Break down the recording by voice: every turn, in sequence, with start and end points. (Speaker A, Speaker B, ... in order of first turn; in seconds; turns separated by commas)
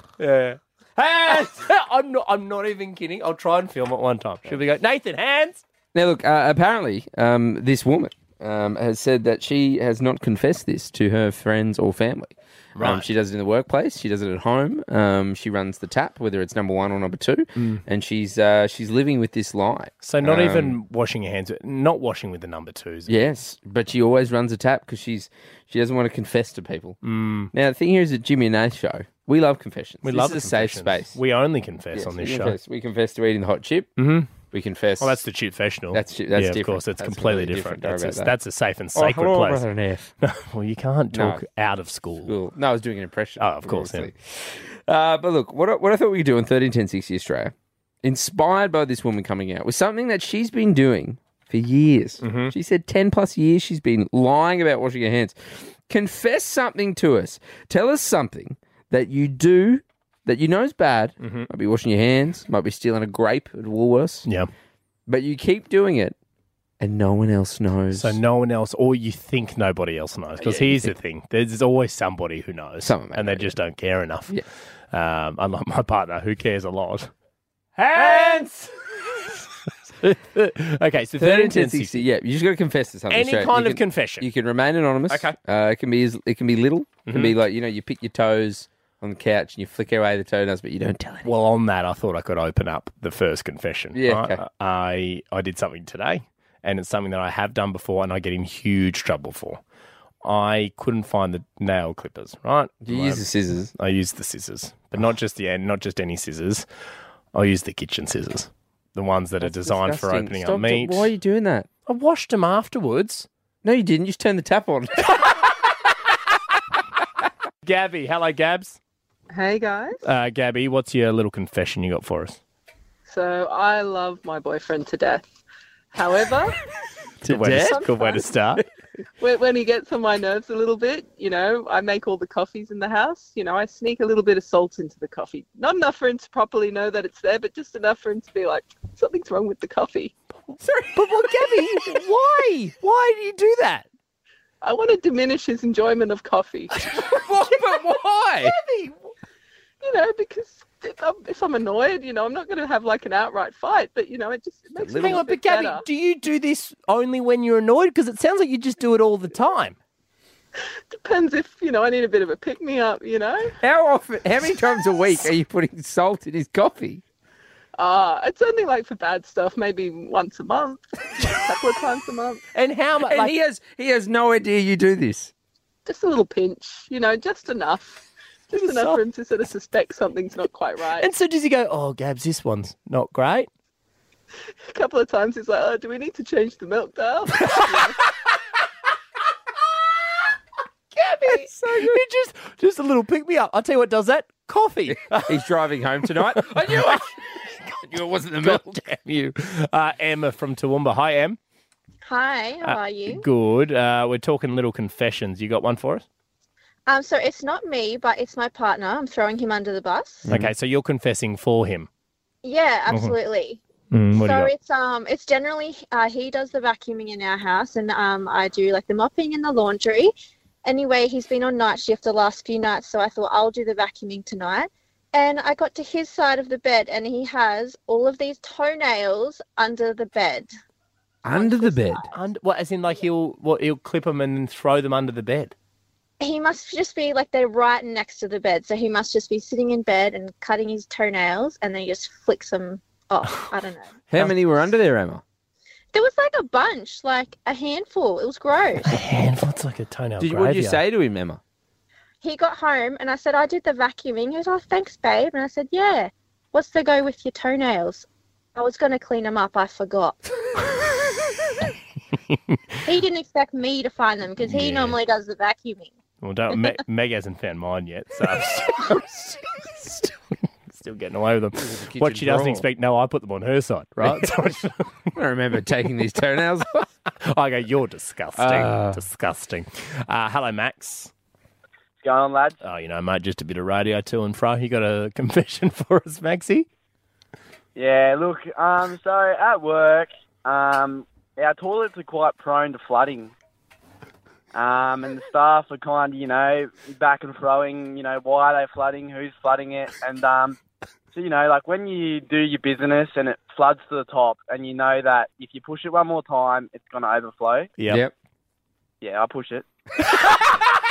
Speaker A: 0.2-5.6, Speaker B: 5.9-20.8, Speaker A: 12.8-13.1, Speaker A: 17.6-17.8, Speaker A: 20.0-23.1, Speaker B: 23.1-27.0, Speaker A: 27.0-27.5, Speaker B: 27.5-31.2, Speaker A: 30.0-32.6, Speaker B: 31.9-33.9, Speaker A: 34.0-34.3, Speaker B: 34.4-35.2, Speaker A: 35.0-39.6, Speaker B: 35.9-38.3, Speaker B: 38.9-40.1, Speaker A: 40.2-42.3, Speaker B: 41.1-41.4, Speaker B: 42.2-64.3, Speaker A: 43.4-44.1, Speaker A: 52.2-52.5, Speaker A: 61.2-61.5, Speaker B: 65.1-66.2, Speaker B: 66.8-68.2, Speaker A: 67.9-74.3, Speaker B: 70.4-70.9, Speaker B: 72.8-73.5, Speaker A: 74.9-77.1, Speaker A: 77.8-78.7, Speaker B: 77.9-78.5, Speaker A: 80.0-82.0, Speaker B: 81.2-91.3, Speaker A: 83.1-84.3, Speaker A: 85.1-85.3, Speaker A: 87.1-87.3, Speaker A: 91.2-99.6, Speaker B: 93.9-94.4, Speaker A: 100.2-106.7, Speaker B: 102.8-103.7, Speaker A: 107.3-111.1, Speaker B: 109.4-111.7, Speaker A: 111.9-113.3, Speaker B: 113.6-115.2, Speaker A: 117.6-118.8, Speaker C: 119.3-120.0, Speaker A: 120.0-122.4, Speaker C: 123.0-125.3, Speaker C: 125.9-126.5, Speaker B: 127.2-127.9, Speaker A: 127.2-128.6, Speaker C: 127.8-128.1, Speaker C: 129.2-140.1, Speaker A: 140.5-143.9, Speaker B: 140.6-141.6, Speaker C: 144.6-146.7, Speaker A: 146.7-149.0, Speaker B: 146.9-148.5, Speaker C: 149.8-155.8, Speaker B: 154.8-155.2, Speaker A: 154.9-159.8, Speaker C: 160.9-163.5, Speaker B: 163.6-167.0, Speaker C: 167.8-172.4, Speaker A: 172.5-173.3, Speaker B: 173.0-175.3, Speaker C: 175.8-181.1, Speaker A: 178.5-179.0, Speaker A: 181.0-183.5, Speaker C: 184.7-188.0, Speaker A: 190.9-195.4, Speaker B: 191.3-192.0, Speaker B: 194.9-197.2, Speaker A: 196.1-197.0, Speaker B: 197.8-198.8, Speaker A: 198.4-201.4, Speaker D: 202.0-203.2, Speaker A: 202.6-206.1, Speaker D: 206.9-210.2, Speaker B: 210.2-210.5, Speaker A: 210.3-211.9, Speaker D: 212.4-213.6, Speaker A: 212.9-213.1, Speaker A: 213.9-214.5, Speaker D: 214.2-220.1, Speaker D: 220.6-230.5, Speaker B: 231.2-232.0, Speaker D: 231.3-232.1, Speaker A: 232.1-235.5, Speaker D: 236.2-243.9, Speaker B: 244.1-245.2, Speaker D: 245.9-249.0, Speaker A: 248.8-250.8, Speaker B: 250.2-251.4, Speaker D: 252.2-260.2, Speaker A: 262.3-262.8, Speaker D: 262.9-265.9, Speaker A: 264.4-265.0, Speaker A: 266.2-270.1, Speaker A: 270.7-274.9, Speaker B: 271.6-272.6, Speaker B: 274.0-274.3, Speaker B: 275.1-276.9, Speaker A: 277.2-281.1, Speaker B: 278.4-279.0, Speaker E: 282.0-282.6, Speaker A: 282.6-286.7, Speaker E: 287.8-293.3, Speaker E: 294.5-300.6, Speaker E: 301.1-307.7, Speaker A: 307.8-308.1, Speaker E: 309.0-309.6